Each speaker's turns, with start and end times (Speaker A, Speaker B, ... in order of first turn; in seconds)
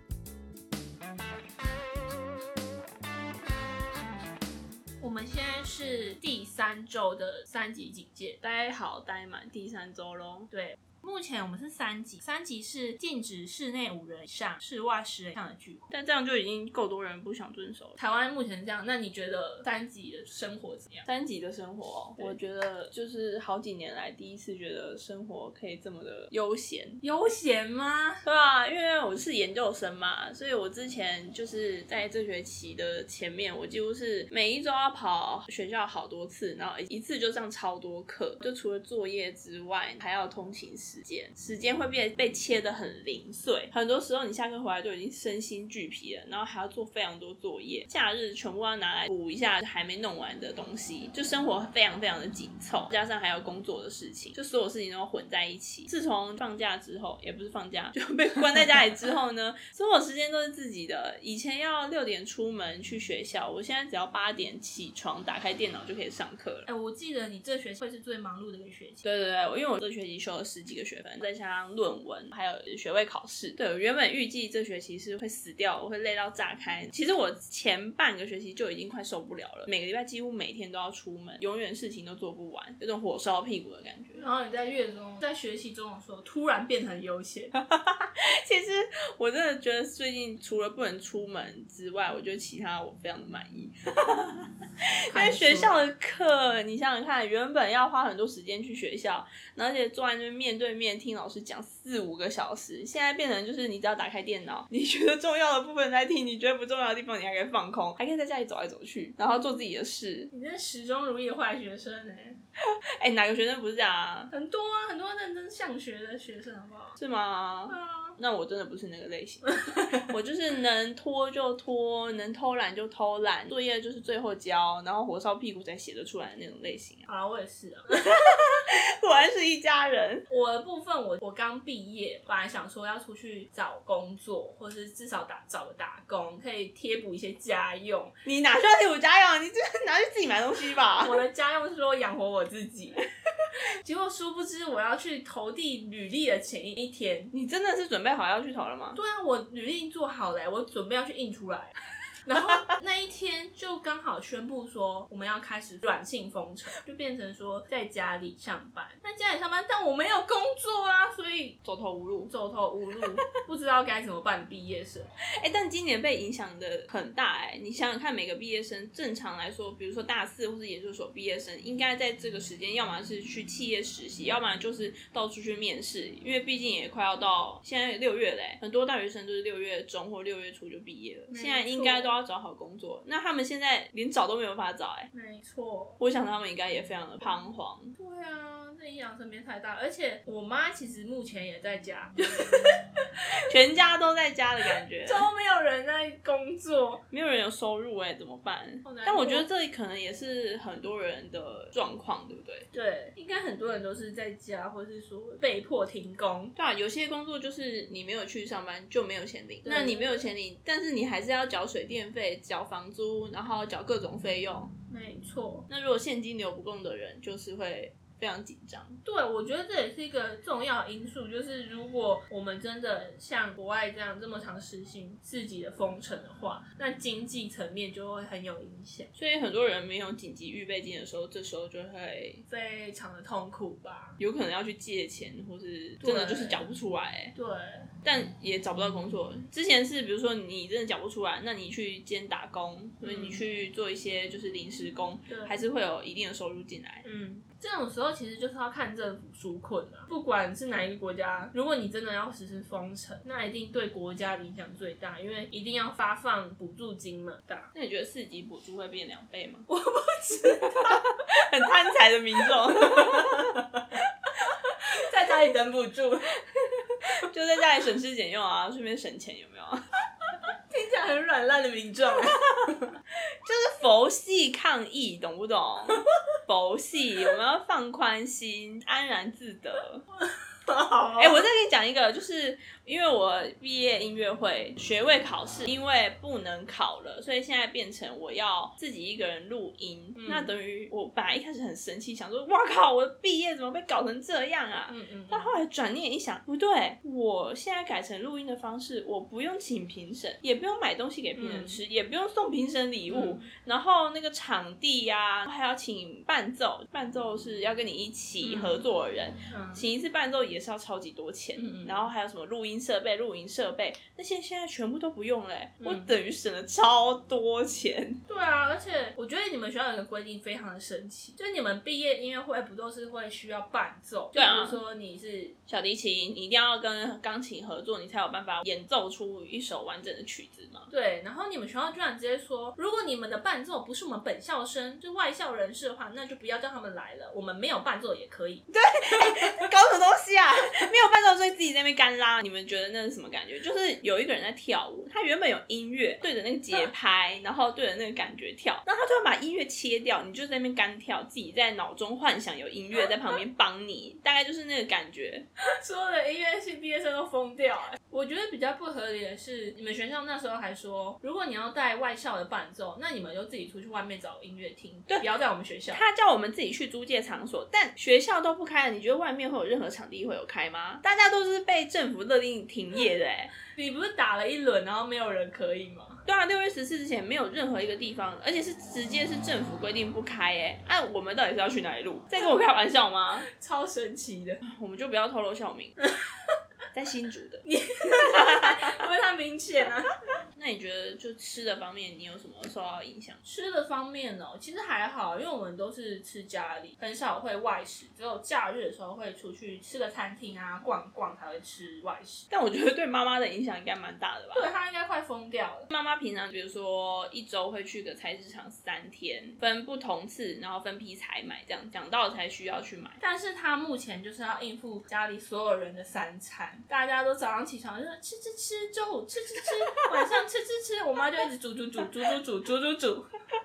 Speaker A: 5.0-8.4, 10.5-15.9, 18.0-21.1, 27.0-28.2, 66.7-69.0, 84.2-87.5, 95.1-95.8, 110.3-112.4, 114.3-117.0, 117.7-118.2, 119.5-119.8, 127.0-128.1, 130.3-138.2, 141.0-143.0, 143.8-147.3, 148.9-151.7, 152.2-161.6, 162.3-165.1, 181.3-182.1, 185.1-186.0, 187.9-192.4, 195.1-197.0, 198.8-199.5, 202.7-206.5, 209.6-210.2, 214.9-215.7, 219.0-229.1, 232.5-234.2, 236.0-236.6, 237.3-237.9, 243.0-243.4, 245.3-245.6, 247.0-257.7, 259.7-261.2, 262.5-264.0, 264.7-266.4, 270.7-272.9, 280.2-281.4, 290.1-290.5, 294.9-295.6, 301.4-301.8, 303.1-303.5, 308.4-308.8, 309.5-309.8, 311.6-312.1, 315.8-316.1, 318.3-325.6, 330.9-338.6, 355.8-366.0, 373.7-376.2, 383.4-384.6, 387.6-390.1, 393.4-402.4, 404.5-405.9, 413.2-423.3
Speaker B: 8.4-10.5, 15.9-18.0, 21.1-27.0, 28.2-66.7, 69.0-84.2, 87.6-94.5, 95.1-110.3, 113.0-114.3, 117.0-127.1, 127.9-130.2, 138.2-141.2, 147.3-149.0, 161.6-162.3, 165.4-185.1, 186.0-187.9, 192.3-192.8, 193.4-195.3, 197.1-202.7, 206.6-214.7, 215.7-219.0, 229.2-232.4, 234.2-237.3, 238.0-247.0, 257.7-259.7, 260.7-263.5, 267.2-269.8, 273.4-280.0, 281.2-318.2, 324.3-324.8, 325.7-330.9, 338.7-355.4, 365.9-373.5, 376.3-383.5, 384.6-386.0, 386.9-387.6, 388.2-389.0, 390.6-393.4, 402.5-404.7, 405.9-413.2